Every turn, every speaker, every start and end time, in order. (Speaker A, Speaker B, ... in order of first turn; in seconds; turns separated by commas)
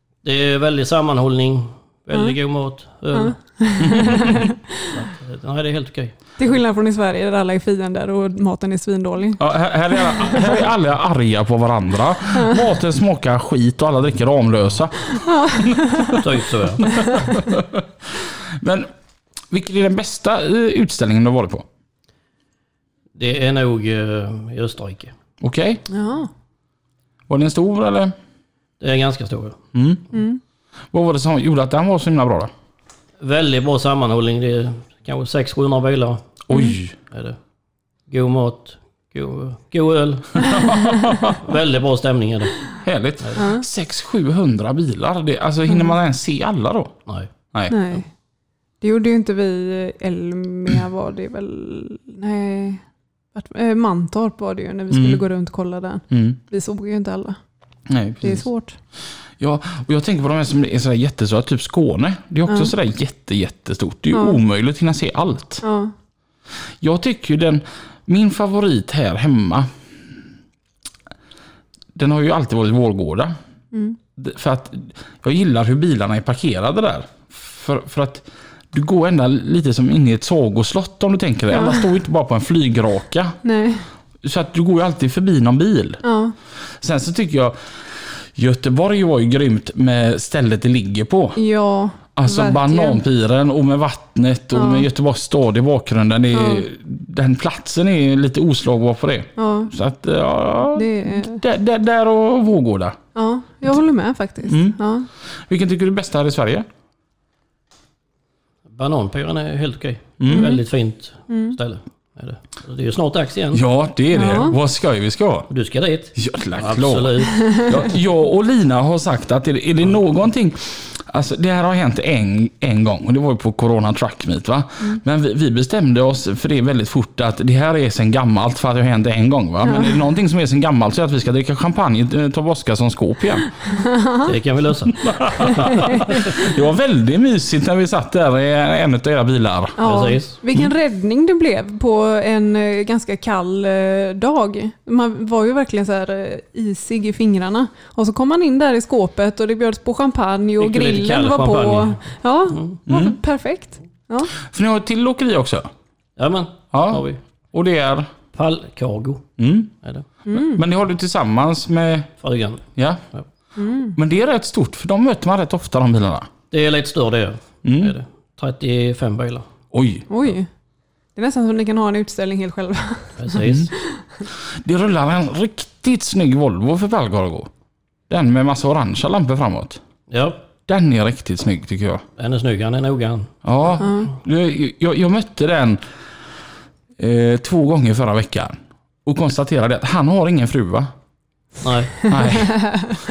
Speaker A: 0.2-6.2, Speaker B: 3.1-4.9, Speaker B: 6.4-9.4, Speaker C: 9.4-16.3, Speaker B: 10.0-10.5, Speaker B: 15.2-16.2, Speaker A: 16.2-16.9, Speaker C: 16.8-18.9, Speaker B: 16.9-17.4, Speaker C: 19.5-21.7, Speaker A: 23.1-25.1, Speaker C: 25.4-25.8, Speaker B: 25.9-26.3, Speaker C: 27.3-28.1, Speaker A: 28.8-29.6, Speaker C: 29.7-30.0, Speaker B: 30.1-30.4, Speaker C: 30.9-32.5, Speaker A: 33.2-36.4, Speaker C: 36.5-37.0, Speaker B: 36.5-36.8, Speaker A: 37.1-37.4, Speaker A: 38.1-40.6, Speaker C: 40.4-41.4, Speaker A: 41.4-42.6, Speaker C: 42.8-47.0, Speaker B: 43.4-43.6, Speaker B: 47.7-48.1, Speaker B: 48.8-52.8, Speaker B: 53.4-57.4, Speaker C: 54.9-55.2, Speaker C: 56.1-56.4, Speaker C: 57.9-58.5, Speaker B: 58.2-58.8, Speaker C: 59.4-65.6, Speaker B: 62.5-62.7, Speaker B: 64.1-64.4, Speaker B: 65.6-65.9, Speaker C: 66.8-69.7, Speaker C: 72.0-73.3, Speaker B: 73.7-74.0, Speaker C: 74.2-83.4, Speaker B: 81.5-81.9, Speaker B: 83.4-83.9, Speaker C: 84.2-86.0, Speaker B: 86.0-86.3, Speaker C: 86.8-91.4, Speaker B: 91.4-93.0, Speaker C: 92.2-103.0, Speaker B: 94.5-94.9, Speaker B: 96.3-96.7, Speaker B: 99.4-99.7, Speaker B: 100.7-101.4, Speaker B: 103.2-105.1, Speaker C: 104.5-104.8, Speaker C: 105.5-106.7, Speaker A: 108.7-113.6, Speaker C: 110.2-110.5, Speaker B: 110.3-110.6, Speaker B: 111.3-111.6, Speaker C: 113.5-115.5, Speaker B: 114.1-114.6, Speaker A: 115.5-117.8, Speaker C: 116.2-133.5, Speaker B: 129.6-130.0, Speaker B: 133.7-134.3, Speaker A: 134.2-135.9, Speaker C: 134.9-139.8, Speaker B: 135.4-136.1, Speaker B: 139.8-154.3, Speaker A: 139.8-140.3, Speaker A: 150.6-152.8, Speaker C: 152.9-153.2, Speaker C: 154.3-155.7, Speaker A: 156.2-157.2, Speaker C: 156.7-158.1, Speaker A: 158.3-159.3, Speaker C: 159.4-159.7, Speaker B: 160.3-160.6, Speaker C: 160.3-162.1, Speaker A: 162.2-163.2, Speaker C: 162.8-163.0, Speaker B: 163.6-164.0, Speaker C: 164.0-166.3, Speaker A: 166.5-169.5, Speaker C: 167.7-167.9, Speaker C: 169.7-170.1, Speaker B: 170.1-170.5, Speaker B: 171.2-173.2, Speaker A: 173.2-173.7, Speaker C: 173.4-173.7, Speaker B: 173.7-174.0, Speaker C: 174.6-177.5, Speaker C: 178.1-179.8, Speaker A: 180.1-180.4, Speaker C: 180.7-182.0, Speaker A: 182.2-183.3, Speaker C: 183.4-185.8, Speaker B: 183.8-184.1, Speaker C: 187.0-190.9, Speaker A: 191.6-192.1, Speaker C: 192.1-192.9, Speaker B: 192.4-192.9